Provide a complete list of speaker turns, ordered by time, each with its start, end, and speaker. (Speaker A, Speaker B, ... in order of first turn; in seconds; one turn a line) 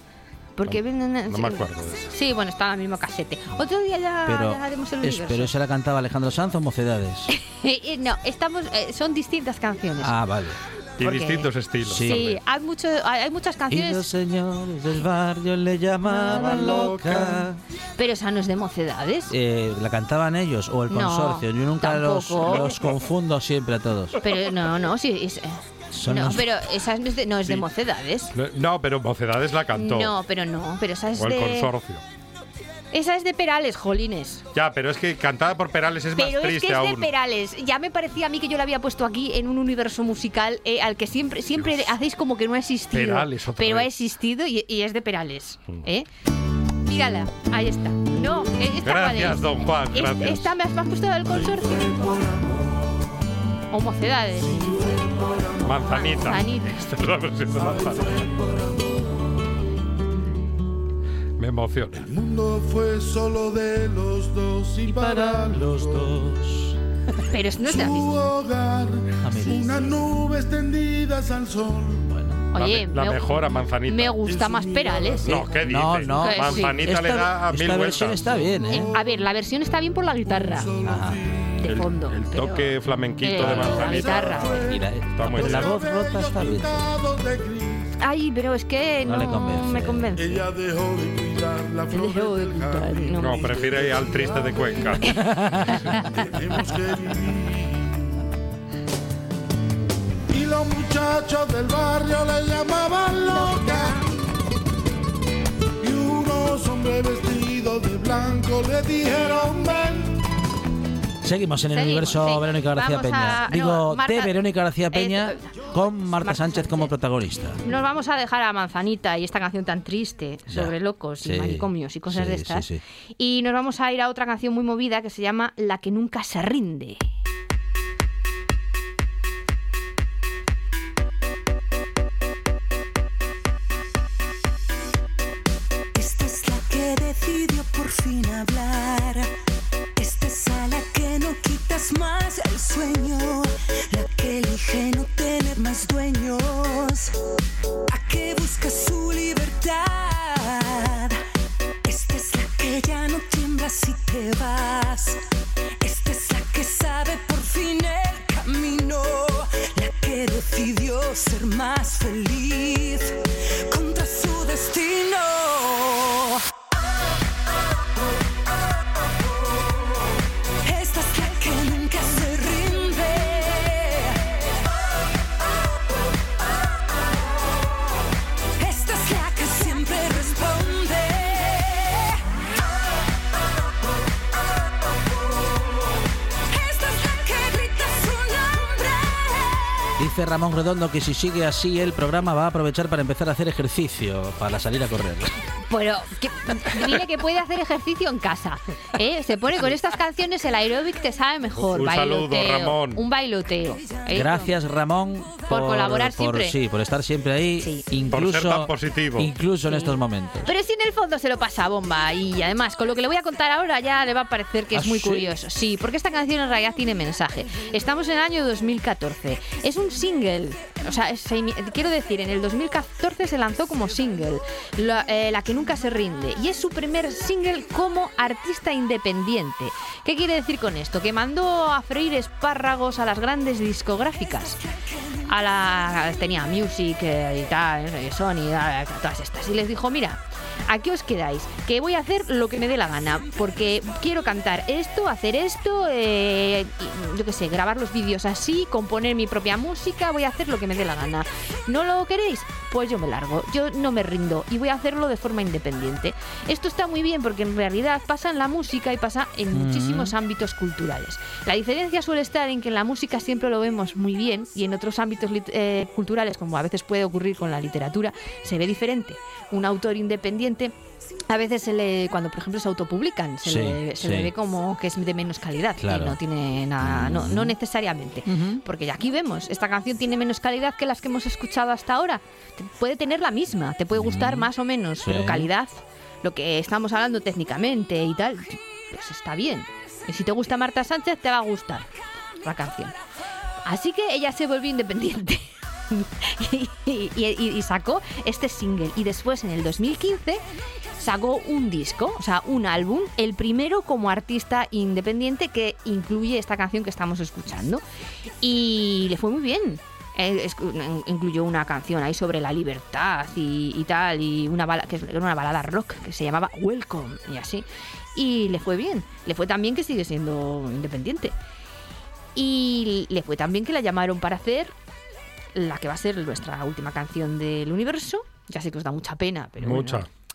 Speaker A: 0.6-5.5
Speaker B: 0.7-2.1
Speaker C: 4.2-7.3
Speaker A: 7.3-10.1
Speaker C: 10.0-10.6
Speaker B: 11.0-12.3
Speaker A: 11.0-14.1
Speaker C: 11.8-12.3
Speaker C: 13.7-17.6
Speaker A: 16.1-17.2
Speaker A: 18.0-19.3
Speaker C: 19.3-24.2
Speaker A: 20.9-22.8
Speaker A: 24.2-28.3
Speaker C: 25.9-26.5
Speaker B: 28.3-30.1
Speaker A: 29.7-31.7
Speaker B: 31.1-32.0
Speaker A: 32.9-34.4
Speaker B: 34.5-37.1
Speaker A: 36.1-46.1
Speaker B: 41.6-41.8
Speaker B: 42.9-43.9
Speaker A: 46.8-52.1
Speaker B: 48.8-50.5
Speaker D: 51.7-52.5
Speaker A: 53.7-54.9
Speaker D: 54.6-55.5
Speaker B: 55.6-58.2
Speaker A: 55.9-56.9
Speaker D: 57.5-58.7
Speaker B: 61.4-62.1
Speaker D: 62.0-66.3
Speaker C: 64.8-66.8
Speaker A: 67.3-68.1
Speaker D: 67.6-72.1
Speaker C: 69.2-70.0
Speaker C: 72.0-72.4
Speaker A: 72.5-73.3
Speaker B: 72.5-74.4
Speaker A: 73.9-75.4
Speaker D: 74.3-76.0
Speaker B: 75.2-78.2
Speaker C: 75.5-78.9
Speaker A: 76.1-76.8
Speaker D: 78.1-79.3
Speaker A: 78.7-80.7
Speaker D: 80.2-81.8
Speaker C: 80.8-81.2
Speaker A: 81.6-82.7
Speaker B: 81.6-85.8
Speaker A: 83.2-84.7
Speaker D: 83.4-87.9
Speaker C: 84.7-86.9
Speaker A: 88.0-90.5
Speaker C: 89.0-90.1
Speaker D: 90.2-98.0
Speaker A: 91.9-93.5
Speaker B: 93.2-95.1
Speaker C: 95.2-95.8
Speaker A: 95.7-96.1
Speaker D: 100.3-104.0
Speaker D: 105.8-110.1
Speaker C: 111.2-117.6
Speaker A: 111.7-114.4
Speaker A: 114.9-116.9
Speaker A: 117.6-122.7
Speaker C: 120.5-122.8
Speaker A: 123.2-127.0
Speaker E: 135.9-139.3
Speaker E: 140.0-147.2
Speaker E: 147.9-151.2
Speaker E: 151.8-155.2
Speaker E: 155.8-166.4
Speaker E: 170.6-174.4
Speaker E: 178.6-182.2
Speaker E: 186.5-189.9
Speaker C: 190.0-195.3
Speaker A: 195.7-204.5
Speaker B: 201.6-203.0
Speaker C: 204.1-210.5
Speaker A: 205.5-206.6
Speaker A: 207.6-207.8
Speaker B: 208.1-209.3
Speaker A: 209.7-234.6
Speaker C: 214.7-215.3
Speaker A: 235.3-270.7
Speaker C: 259.5-260.1
Speaker A: 271.3-291.9
Speaker C: 273.4-274.3
Speaker C: 275.8-276.2
Speaker C: 276.8-277.5
Speaker C: 278.2-278.6
Speaker C: 283.9-284.5
Speaker C: 285.0-285.5
Speaker A: 292.4-292.9
Speaker A: 293.6-300.4
Speaker A: 301.0-307.8
Speaker A: 308.4-321.3
Speaker A: 322.3-324.7
Speaker A: 325.5-330.1
Speaker B: 329.6-330.1